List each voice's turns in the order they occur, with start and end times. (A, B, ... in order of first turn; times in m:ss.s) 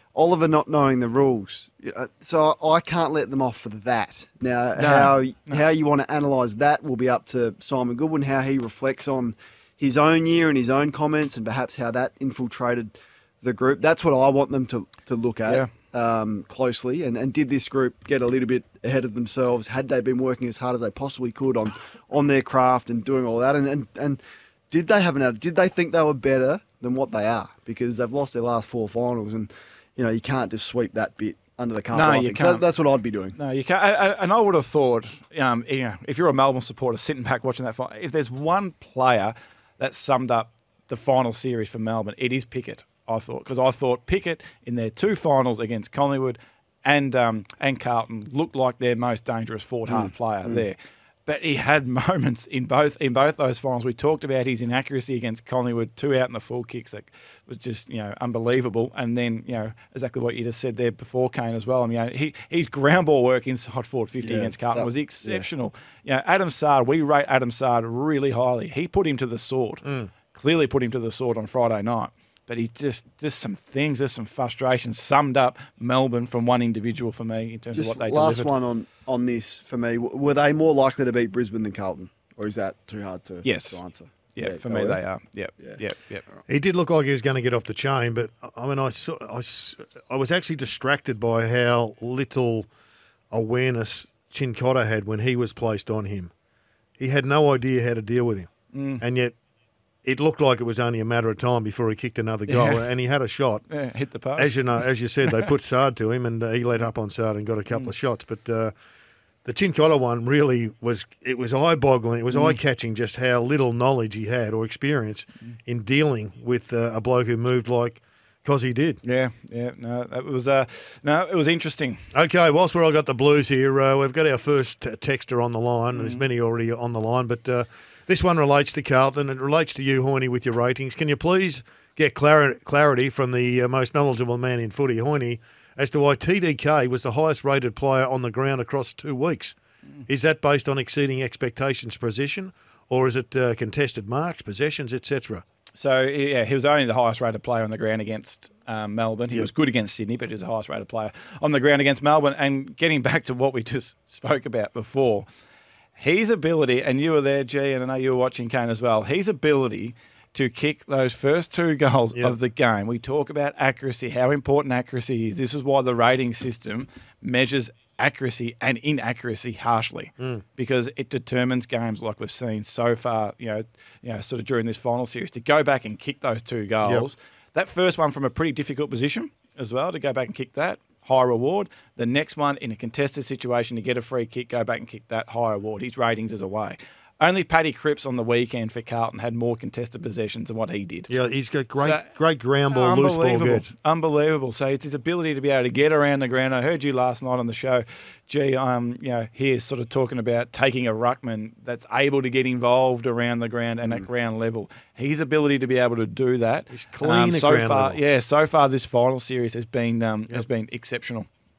0:00.1-0:33.4 A
0:04.8-0:05.6 B
0:31.9-0:32.6 B
0:33.4-1:18.5 B
0:49.9-0:50.6 A
1:04.2-1:05.5 A
1:09.8-1:10.1 C
1:17.7-1:25.0 A
1:23.4-1:23.8 B
1:24.3-1:26.2 B
1:26.5-1:32.7 C
1:33.3-1:36.3 C
1:37.0-1:39.3 C
1:38.7-1:39.0 B
1:40.0-1:43.6 C
1:42.5-1:42.8 B
1:43.7-1:44.6 B
1:44.4-1:48.7 C
1:49.4-1:59.0 C
1:52.3-1:52.6 B
1:59.0-2:02.0 B
2:02.1-2:25.4 C
2:06.0-2:06.2 B
2:25.7-2:35.2 B
2:36.0-3:11.1 B
3:11.1-3:13.7 C
3:11.8-3:12.0 B
3:12.7-3:31.3 B
3:26.7-3:28.0 C